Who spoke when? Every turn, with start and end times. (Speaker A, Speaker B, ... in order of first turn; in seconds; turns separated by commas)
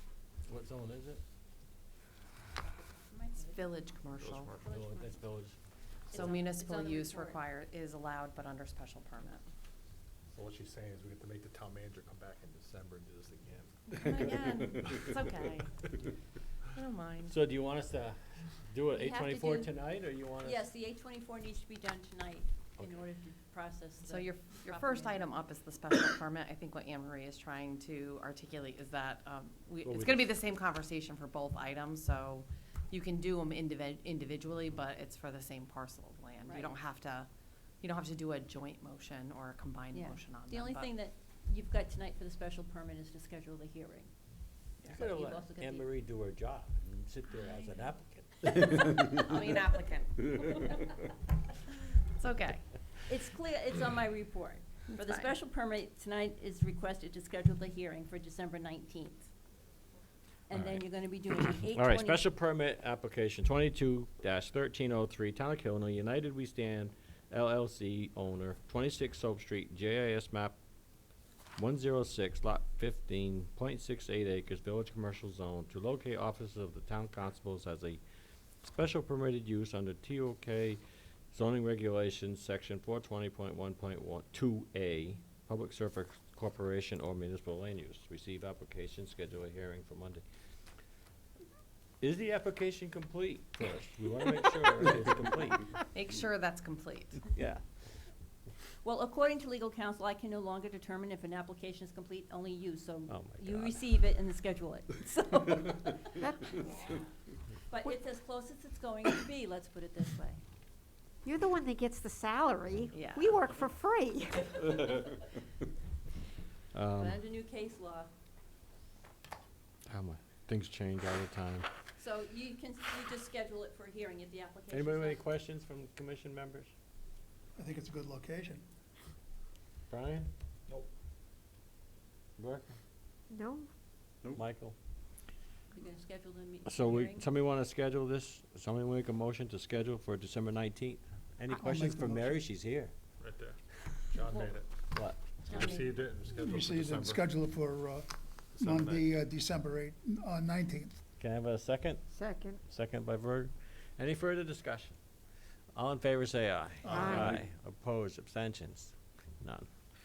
Speaker A: 0.5-1.2, Speaker B: 2.8-3.6, Speaker C: 3.4-4.5, Speaker D: 4.2-4.7, Speaker A: 4.6-5.6, Speaker B: 6.1-7.4, Speaker C: 6.1-9.4, Speaker D: 10.3-13.9, Speaker C: 13.9-15.7, Speaker C: 16.7-17.4, Speaker A: 17.3-18.2, Speaker A: 18.7-20.7, Speaker B: 18.9-19.7, Speaker B: 20.4-25.3, Speaker C: 24.1-37.3, Speaker A: 29.9-30.3, Speaker B: 36.5-36.7, Speaker C: 37.8-40.9, Speaker B: 39.9-44.1, Speaker B: 44.9-45.9, Speaker A: 44.9-49.0, Speaker B: 47.4-47.7, Speaker C: 48.7-50.8, Speaker C: 52.1-52.6, Speaker B: 53.1-59.3, Speaker C: 54.9-55.3, Speaker B: 60.5-62.3, Speaker A: 60.5-60.8, Speaker A: 61.7-70.5, Speaker A: 71.6-78.0, Speaker A: 78.6-80.8, Speaker A: 81.3-90.2, Speaker A: 92.0-95.7, Speaker C: 95.9-97.2, Speaker A: 97.3-97.6, Speaker B: 98.8-106.2, Speaker A: 103.1-103.8, Speaker E: 106.2-106.8, Speaker B: 107.7-110.4, Speaker E: 111.2-115.1, Speaker C: 112.9-113.3, Speaker A: 116.7-117.2, Speaker B: 117.0-118.1, Speaker A: 119.9-121.7, Speaker B: 122.0-125.2, Speaker A: 124.7-126.7, Speaker F: 127.6-128.6, Speaker A: 129.9-130.3, Speaker A: 132.4-132.8, Speaker E: 133.3-133.7, Speaker A: 134.3-134.8, Speaker B: 135.7-137.3, Speaker A: 136.7-142.9, Speaker F: 141.5-142.4, Speaker D: 143.2-143.6, Speaker D: 144.1-144.7, Speaker A: 144.9-145.2, Speaker C: 145.5-145.8, Speaker D: 145.5-147.3, Speaker F: 146.4-151.0, Speaker D: 148.6-149.1, Speaker A: 151.2-152.0, Speaker E: 152.1-152.6, Speaker A: 152.7-155.0, Speaker A: 155.8-159.7, Speaker F: 156.8-157.4, Speaker E: 156.9-157.4